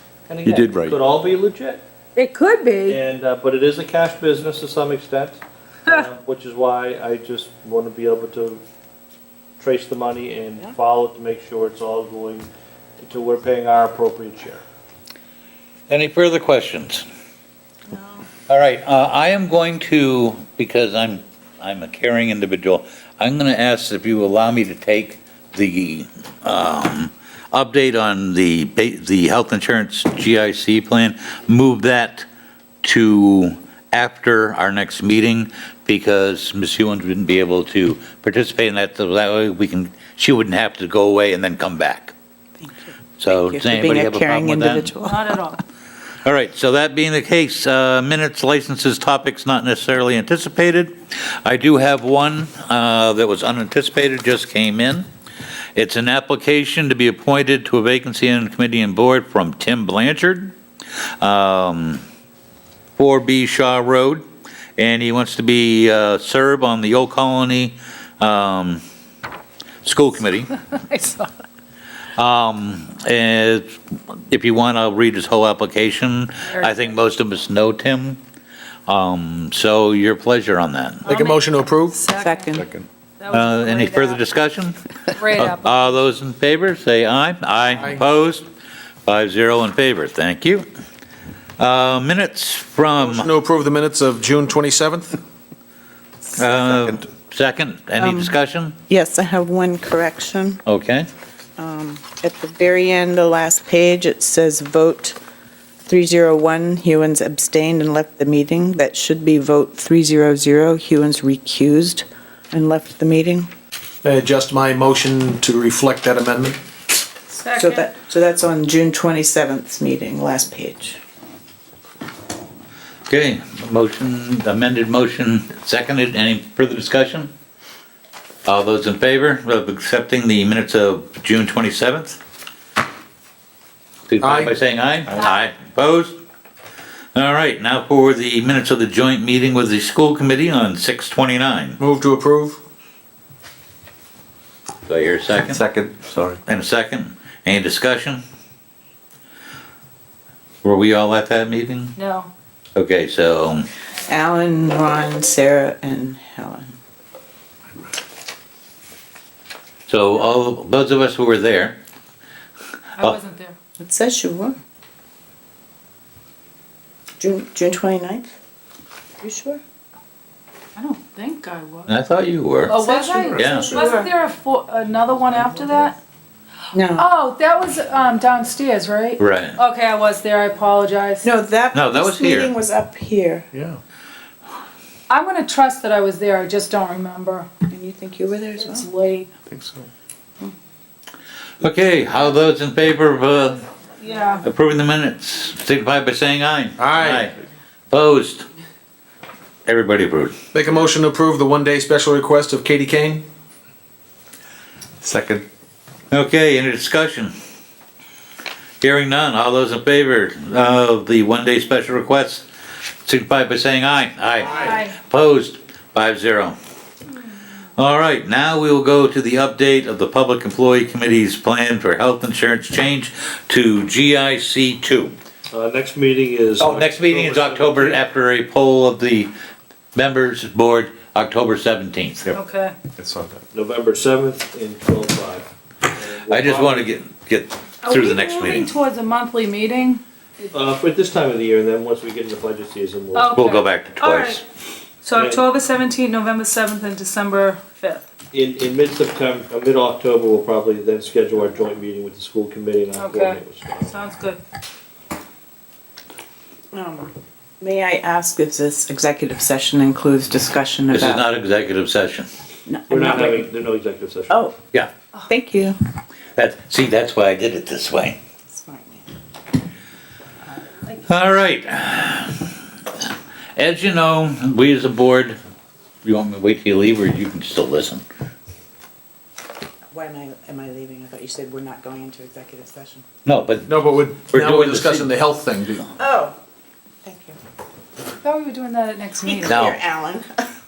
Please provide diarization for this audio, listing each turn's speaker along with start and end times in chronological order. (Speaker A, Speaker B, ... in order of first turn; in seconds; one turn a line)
Speaker A: 0.3-1.8
Speaker B: 0.4-1.0
Speaker C: 2.1-3.0
Speaker A: 2.9-8.6
Speaker A: 9.6-12.5
Speaker A: 13.0-14.6
Speaker D: 15.9-17.0
Speaker D: 18.5-32.2
Speaker D: 32.8-42.1
Speaker E: 42.6-45.4
Speaker D: 43.2-44.9
Speaker C: 45.0-45.6
Speaker D: 46.2-55.0
Speaker D: 55.8-60.5
Speaker D: 61.2-62.0
Speaker D: 63.0-64.2
Speaker D: 64.8-68.8
Speaker D: 69.8-70.5
Speaker C: 70.6-71.3
Speaker D: 72.2-78.2
Speaker C: 76.5-76.9
Speaker D: 78.9-81.1
Speaker C: 81.0-82.6
Speaker F: 81.0-82.0
Speaker E: 82.2-82.7
Speaker C: 83.2-84.2
Speaker D: 83.3-84.8
Speaker C: 85.1-86.0
Speaker D: 85.3-88.5
Speaker F: 87.8-88.0
Speaker D: 89.0-90.6
Speaker D: 91.6-93.3
Speaker F: 93.0-95.2
Speaker D: 96.3-98.8
Speaker E: 98.0-98.3
Speaker E: 98.9-100.6
Speaker D: 100.7-101.1
Speaker E: 101.6-105.2
Speaker E: 105.9-113.5
Speaker F: 114.0-116.6
Speaker C: 117.3-117.9
Speaker E: 117.6-121.0
Speaker D: 123.1-127.3
Speaker D: 128.4-132.2
Speaker D: 134.1-136.2
Speaker F: 134.2-134.6
Speaker D: 137.1-141.8
Speaker F: 141.8-142.6
Speaker D: 144.8-145.6
Speaker B: 145.4-146.4
Speaker D: 146.5-148.2
Speaker D: 150.6-151.9
Speaker C: 151.9-152.3
Speaker D: 152.7-153.7
Speaker E: 154.1-156.7
Speaker D: 159.9-161.8
Speaker C: 163.0-163.6
Speaker E: 163.8-164.5
Speaker E: 167.2-168.3
Speaker E: 169.2-169.6
Speaker C: 170.7-171.9
Speaker D: 171.9-172.7
Speaker C: 172.7-175.9
Speaker E: 172.7-174.1
Speaker D: 173.3-173.7
Speaker E: 176.7-177.1
Speaker C: 177.0-181.2
Speaker D: 179.2-179.6
Speaker E: 181.2-183.5
Speaker D: 181.7-182.5
Speaker C: 185.1-187.5
Speaker E: 187.7-188.9
Speaker C: 188.6-189.3
Speaker F: 189.5-189.8
Speaker D: 191.6-193.6
Speaker C: 194.0-194.4
Speaker D: 194.4-197.3
Speaker F: 196.8-197.3
Speaker D: 197.9-198.4
Speaker D: 199.7-200.3
Speaker F: 200.5-203.2
Speaker B: 205.0-205.4
Speaker D: 206.1-207.3
Speaker D: 208.8-212.4
Speaker D: 213.1-216.6
Speaker C: 214.4-214.9
Speaker D: 217.8-225.1
Speaker A: 225.5-228.0
Speaker D: 226.6-229.3
Speaker D: 229.9-232.3
Speaker C: 232.3-232.7
Speaker B: 233.0-233.4
Speaker A: 233.5-236.9
Speaker D: 236.3-238.7
Speaker C: 237.8-240.5
Speaker A: 240.5-243.3
Speaker C: 243.1-244.4
Speaker D: 243.3-244.4
Speaker C: 245.0-248.0
Speaker A: 245.1-245.4
Speaker A: 248.3-254.0
Speaker C: 252.9-254.4
Speaker E: 256.7-261.3
Speaker D: 260.9-262.3
Speaker E: 262.6-263.4
Speaker A: 262.9-264.4
Speaker E: 264.3-264.6
Speaker E: 265.2-265.8
Speaker D: 266.4-268.2
Speaker E: 268.5-269.1
Speaker C: 270.9-271.1
Speaker D: 271.1-272.3
Speaker D: 273.6-275.4
Speaker D: 276.0-278.0
Speaker E: 279.9-283.0
Speaker D: 283.2-285.1
Speaker F: 283.7-285.9
Speaker E: 286.0-286.3
Speaker E: 287.0-287.4
Speaker C: 288.2-289.6
Speaker E: 289.2-290.3
Speaker D: 289.4-289.8